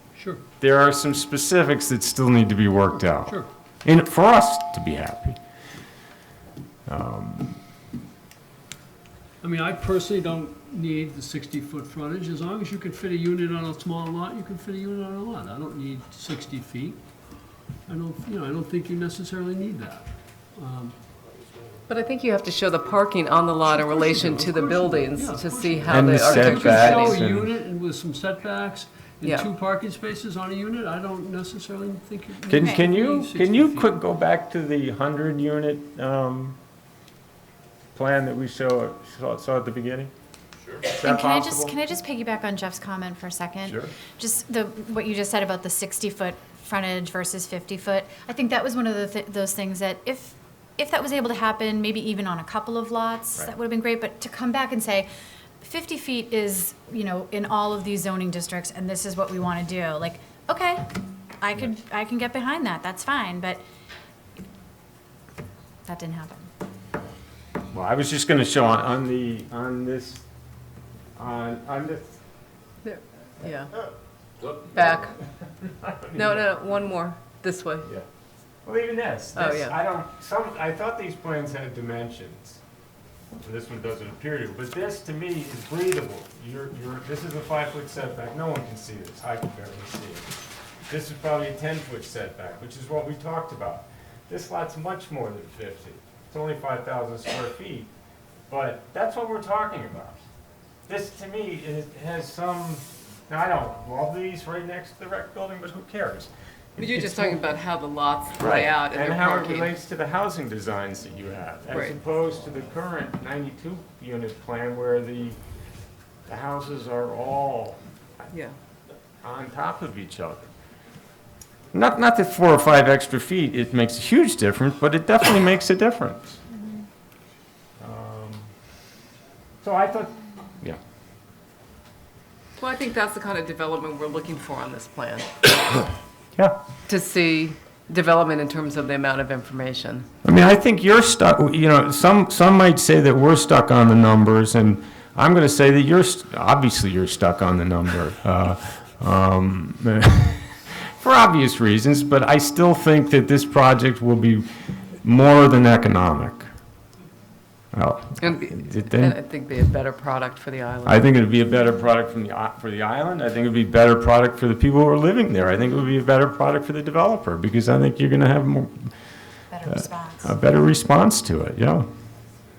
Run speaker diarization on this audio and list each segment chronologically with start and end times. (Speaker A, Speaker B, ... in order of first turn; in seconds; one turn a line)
Speaker A: 0.1-0.4
Speaker B: 0.6-5.4
Speaker B: 6.9-7.6
Speaker A: 9.4-17.0
Speaker A: 17.9-20.9
Speaker C: 21.9-27.1
Speaker A: 23.6-33.9
Speaker B: 25.9-27.5
Speaker C: 29.2-29.5
Speaker B: 32.5-36.6
Speaker D: 32.6-32.8
Speaker B: 37.9-40.1
Speaker B: 40.9-41.7
Speaker D: 40.9-55.1
Speaker D: 55.6-63.6
Speaker D: 65.9-66.5
Speaker B: 67.7-70.2
Speaker B: 71.2-72.1
Speaker C: 72.8-73.7
Speaker C: 74.7-75.1
Speaker B: 75.8-76.5
Speaker C: 76.1-77.8
Speaker B: 78.6-82.6
Speaker C: 79.3-79.7
Speaker B: 83.4-90.3
Speaker B: 90.9-97.9
Speaker B: 98.5-100.2
Speaker B: 100.9-107.4
Speaker C: 106.8-109.7
Speaker B: 108.4-115.4
Speaker C: 111.7-112.0
Speaker B: 116.3-117.8
Speaker B: 119.2-120.5
Speaker B: 121.7-126.4
Speaker B: 127.8-128.5
Speaker B: 129.6-130.8
Speaker C: 132.6-135.8
Speaker C: 136.9-140.1
Speaker B: 140.2-150.4
Speaker B: 151.0-154.5
Speaker B: 155.0-156.5
Speaker B: 157.7-159.2
Speaker C: 158.2-161.0
Speaker B: 160.8-168.9
Speaker D: 169.5-170.3
Speaker B: 169.7-171.9